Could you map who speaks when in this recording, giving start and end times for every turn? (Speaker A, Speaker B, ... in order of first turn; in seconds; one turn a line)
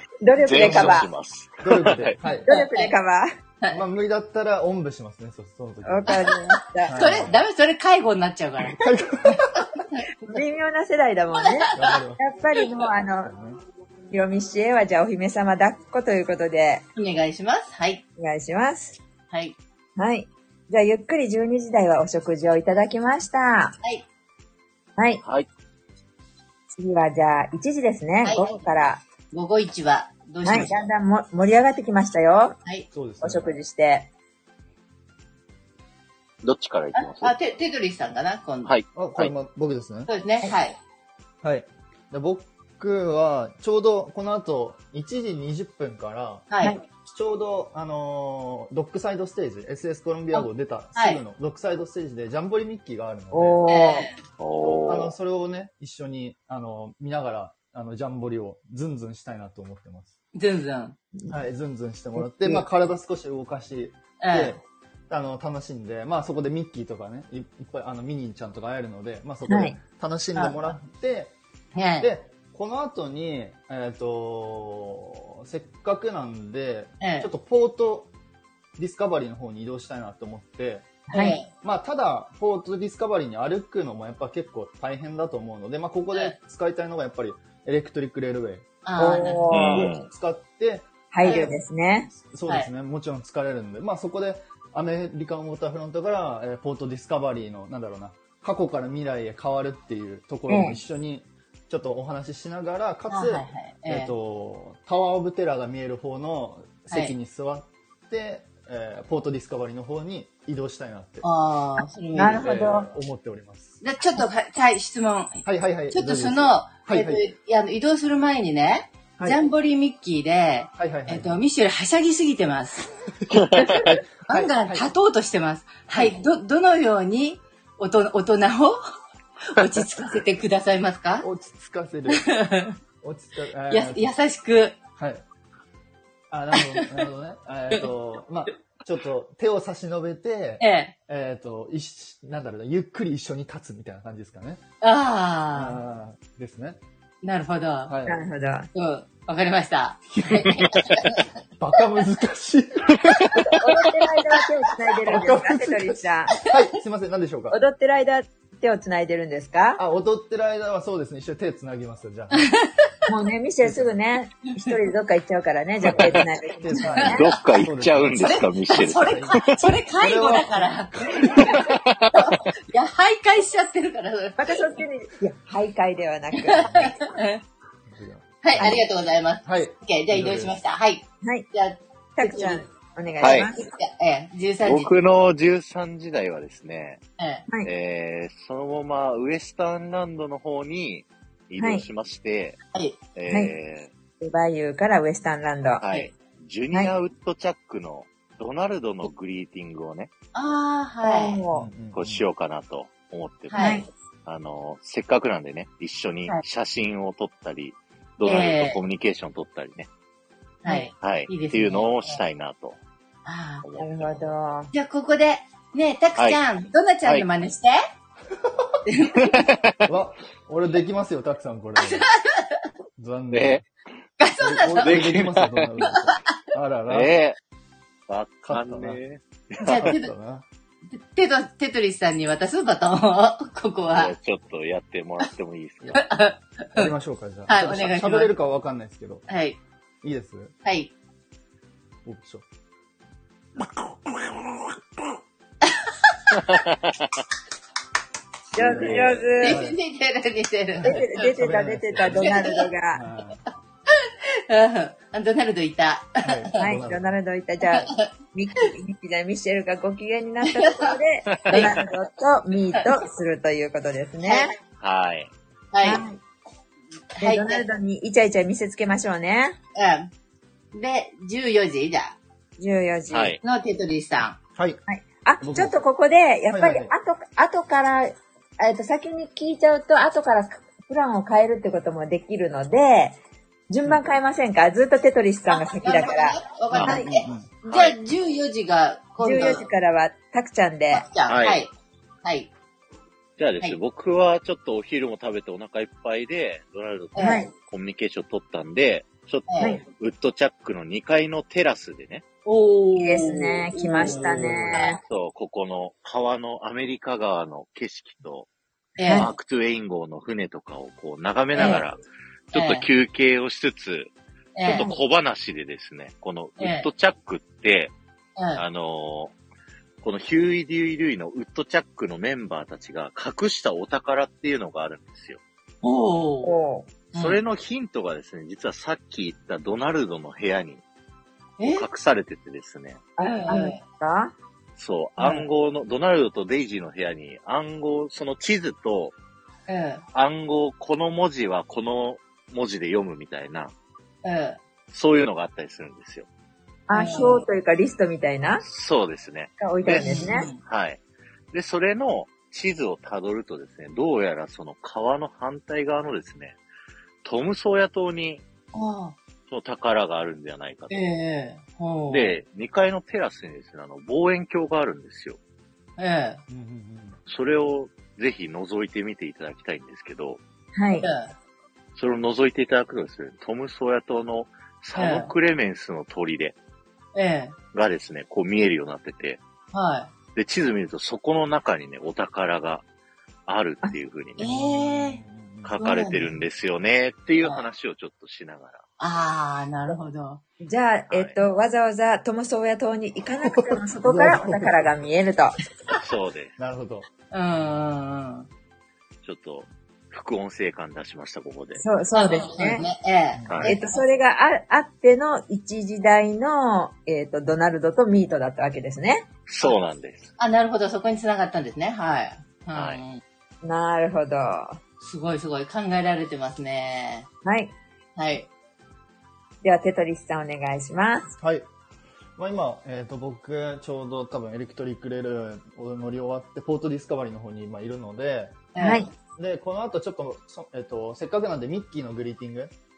Speaker A: 0.2-1.1
Speaker B: 0.4-2.2
Speaker C: 0.6-1.0
Speaker C: 1.6-2.5
Speaker A: 2.5-3.3
Speaker D: 2.5-2.9
Speaker C: 3.7-6.2
Speaker A: 5.8-7.0
Speaker C: 6.8-7.4
Speaker D: 6.9-10.4
Speaker C: 8.7-9.7
Speaker A: 10.3-13.3
Speaker C: 11.7-12.3
Speaker C: 13.2-13.6
Speaker A: 14.1-16.9
Speaker D: 17.0-18.0
Speaker A: 18.2-19.0
Speaker D: 19.3-19.6
Speaker A: 20.0-23.8
Speaker A: 25.0-25.2
Speaker A: 26.7-29.0
Speaker D: 28.2-28.5
Speaker D: 29.3-30.8
Speaker A: 30.4-32.6
Speaker C: 32.9-33.6
Speaker A: 33.2-34.1
Speaker B: 36.4-37.4
Speaker D: 37.0-38.7
Speaker B: 38.6-39.3
Speaker C: 39.0-40.1
Speaker D: 40.1-40.8
Speaker C: 41.4-53.6
Speaker D: 46.5-46.8
Speaker A: 53.3-54.1
Speaker D: 53.7-54.2
Speaker B: 54.4-55.1
Speaker C: 54.9-60.1
Speaker D: 60.4-61.0
Speaker C: 61.3-71.3
Speaker A: 62.2-62.6
Speaker D: 64.2-64.6
Speaker A: 69.5-69.8
Speaker D: 71.8-72.1
Speaker C: 72.0-78.1
Speaker D: 77.0-77.3
Speaker C: 78.8-81.0
Speaker A: 81.1-81.4
Speaker D: 81.1-81.5
Speaker C: 81.6-88.7
Speaker D: 88.8-89.4
Speaker A: 89.0-89.9
Speaker C: 89.5-91.5
Speaker B: 89.5-90.1
Speaker A: 91.1-92.1
Speaker D: 91.2-91.5
Speaker C: 92.1-111.3
Speaker A: 100.5-100.8
Speaker D: 103.1-104.1
Speaker D: 111.2-112.5
Speaker A: 112.2-112.9
Speaker C: 112.2-113.8
Speaker D: 113.8-122.9
Speaker C: 115.5-117.2
Speaker C: 119.2-119.4
Speaker C: 120.8-121.4
Speaker C: 123.2-124.9
Speaker B: 123.3-123.9
Speaker D: 123.6-128.8
Speaker D: 129.4-131.3
Speaker C: 131.2-132.3
Speaker D: 132.1-132.8
Speaker C: 133.0-134.1
Speaker D: 133.7-134.8
Speaker C: 135.0-135.2
Speaker C: 136.3-144.6
Speaker D: 136.6-137.1
Speaker D: 140.6-140.9
Speaker D: 144.8-145.8
Speaker C: 145.5-146.8
Speaker D: 147.2-148.0
Speaker C: 147.9-148.2
Speaker A: 148.1-148.7
Speaker D: 148.7-151.3
Speaker C: 150.1-150.7
Speaker C: 151.6-153.4
Speaker B: 153.0-153.3
Speaker A: 153.3-156.4
Speaker C: 155.1-157.6
Speaker A: 157.5-159.8
Speaker C: 159.8-162.5
Speaker D: 162.3-162.9
Speaker A: 163.1-167.3
Speaker C: 163.6-163.9
Speaker C: 165.8-171.8
Speaker B: 167.1-169.7
Speaker D: 168.2-171.6
Speaker B: 171.3-172.4
Speaker D: 172.1-174.7
Speaker A: 174.4-176.9
Speaker D: 176.4-177.4
Speaker C: 176.7-176.9
Speaker C: 177.9-178.8
Speaker D: 178.4-182.7
Speaker C: 179.4-180.6
Speaker A: 181.2-181.5
Speaker A: 182.2-183.7
Speaker B: 183.2-183.5
Speaker D: 183.6-184.9
Speaker B: 184.6-187.0
Speaker D: 187.2-187.5
Speaker B: 187.6-192.6
Speaker A: 191.6-191.8
Speaker D: 192.7-193.0
Speaker B: 193.2-193.9
Speaker A: 193.3-193.5
Speaker A: 194.2-195.8
Speaker B: 195.8-200.1
Speaker D: 195.9-196.1
Speaker D: 200.3-201.4
Speaker A: 201.0-201.7
Speaker C: 201.5-202.2
Speaker B: 201.9-209.9
Speaker D: 203.5-203.8
Speaker A: 203.6-203.9
Speaker D: 208.2-208.8
Speaker D: 210.6-212.2
Speaker B: 211.0-212.8
Speaker D: 213.2-213.7
Speaker B: 213.6-214.3
Speaker A: 213.8-214.7
Speaker D: 214.7-217.8
Speaker C: 218.3-218.8
Speaker D: 218.9-219.5
Speaker B: 219.2-219.9
Speaker C: 219.8-222.1
Speaker D: 221.8-222.6
Speaker C: 223.0-223.6
Speaker B: 223.3-223.7
Speaker D: 224.2-225.1
Speaker C: 224.4-227.2
Speaker B: 224.7-225.7
Speaker D: 225.8-226.2
Speaker B: 226.9-227.4
Speaker B: 228.1-229.9
Speaker C: 228.5-229.0
Speaker C: 229.6-230.4
Speaker D: 229.6-230.1
Speaker D: 230.9-234.1
Speaker B: 233.9-236.1
Speaker D: 235.9-236.9
Speaker C: 236.8-239.3
Speaker D: 237.5-238.3
Speaker D: 239.3-239.6
Speaker C: 240.0-240.6
Speaker D: 240.6-240.9
Speaker C: 242.1-242.4
Speaker C: 243.7-244.3
Speaker D: 245.7-246.2
Speaker B: 246.4-247.0
Speaker C: 248.5-249.8
Speaker A: 248.5-249.6
Speaker D: 248.8-251.3
Speaker C: 250.8-252.4
Speaker A: 250.8-253.0
Speaker D: 252.0-252.7
Speaker C: 252.9-253.4
Speaker D: 253.9-256.4
Speaker C: 256.2-257.1
Speaker A: 256.6-264.6
Speaker D: 257.6-258.1
Speaker D: 260.6-260.9
Speaker B: 261.3-261.8
Speaker D: 261.5-261.8
Speaker D: 264.2-264.5
Speaker B: 264.8-265.3
Speaker D: 265.7-266.0
Speaker A: 265.8-266.2
Speaker D: 267.1-267.6
Speaker A: 267.2-269.6
Speaker D: 269.8-270.1
Speaker D: 270.7-272.2
Speaker A: 272.6-273.4
Speaker B: 273.1-273.4
Speaker D: 273.4-274.4
Speaker C: 274.6-274.8
Speaker A: 274.9-283.2
Speaker C: 275.4-275.8
Speaker C: 276.5-276.9
Speaker A: 283.7-287.2
Speaker C: 283.9-284.2
Speaker D: 285.5-289.7
Speaker B: 286.7-287.0
Speaker C: 286.8-287.5
Speaker B: 287.7-288.0
Speaker A: 289.2-291.1
Speaker D: 290.9-291.7
Speaker B: 291.3-291.6
Speaker D: 292.2-292.5
Speaker B: 293.4-302.2
Speaker D: 297.1-297.5
Speaker A: 297.2-297.5
Speaker D: 299.5-299.8
Speaker D: 302.4-304.9
Speaker A: 303.0-305.0
Speaker B: 304.7-308.5
Speaker D: 309.0-309.3
Speaker A: 309.0-309.3
Speaker B: 309.1-312.0
Speaker D: 311.6-311.8
Speaker B: 312.5-314.1
Speaker D: 312.5-312.9
Speaker D: 314.6-314.9
Speaker B: 314.6-317.9
Speaker D: 316.6-316.9
Speaker D: 318.4-318.6
Speaker B: 318.5-319.3
Speaker B: 320.0-325.4
Speaker D: 325.8-326.6
Speaker A: 326.4-326.9
Speaker D: 327.1-327.4
Speaker B: 327.1-330.8
Speaker D: 331.6-331.9
Speaker B: 331.6-333.1
Speaker A: 333.2-334.4
Speaker D: 333.2-333.8
Speaker B: 334.8-339.1
Speaker D: 335.2-335.5
Speaker D: 339.7-340.0
Speaker B: 340.1-343.7
Speaker D: 344.2-344.6
Speaker B: 344.9-346.3
Speaker A: 346.9-348.6
Speaker D: 346.9-347.4
Speaker B: 348.6-351.0
Speaker A: 349.6-350.5
Speaker D: 350.0-350.6
Speaker B: 351.5-356.6
Speaker B: 357.2-358.4
Speaker D: 358.7-359.2
Speaker B: 359.5-361.1
Speaker D: 360.9-362.3
Speaker B: 362.1-365.4
Speaker D: 366.0-366.4
Speaker C: 366.5-367.2
Speaker B: 367.3-370.4
Speaker A: 370.8-371.1
Speaker D: 370.9-371.3
Speaker B: 372.0-376.6
Speaker D: 375.0-375.3
Speaker D: 377.1-377.6
Speaker B: 377.7-379.4
Speaker D: 379.7-380.1
Speaker B: 380.4-382.8
Speaker B: 383.5-384.4
Speaker D: 384.4-385.2
Speaker C: 384.4-385.8
Speaker B: 385.6-388.8
Speaker D: 385.8-386.4
Speaker D: 387.4-387.7
Speaker D: 389.0-390.4
Speaker A: 390.6-395.6
Speaker B: 391.1-391.4
Speaker C: 393.7-395.0
Speaker B: 396.0-396.5
Speaker C: 396.6-397.7
Speaker D: 397.3-398.5
Speaker B: 399.2-401.9
Speaker A: 401.8-402.9
Speaker D: 402.1-404.0
Speaker C: 403.4-403.6
Speaker B: 403.5-403.7
Speaker A: 403.6-409.3
Speaker B: 409.5-410.3
Speaker D: 410.4-413.2
Speaker B: 412.7-413.0
Speaker A: 413.6-414.8
Speaker D: 415.0-417.3
Speaker A: 417.4-417.7
Speaker D: 418.2-418.5
Speaker A: 419.6-421.3
Speaker C: 421.4-421.7
Speaker C: 422.4-428.7
Speaker D: 428.8-429.1
Speaker A: 428.8-429.1
Speaker C: 429.4-432.7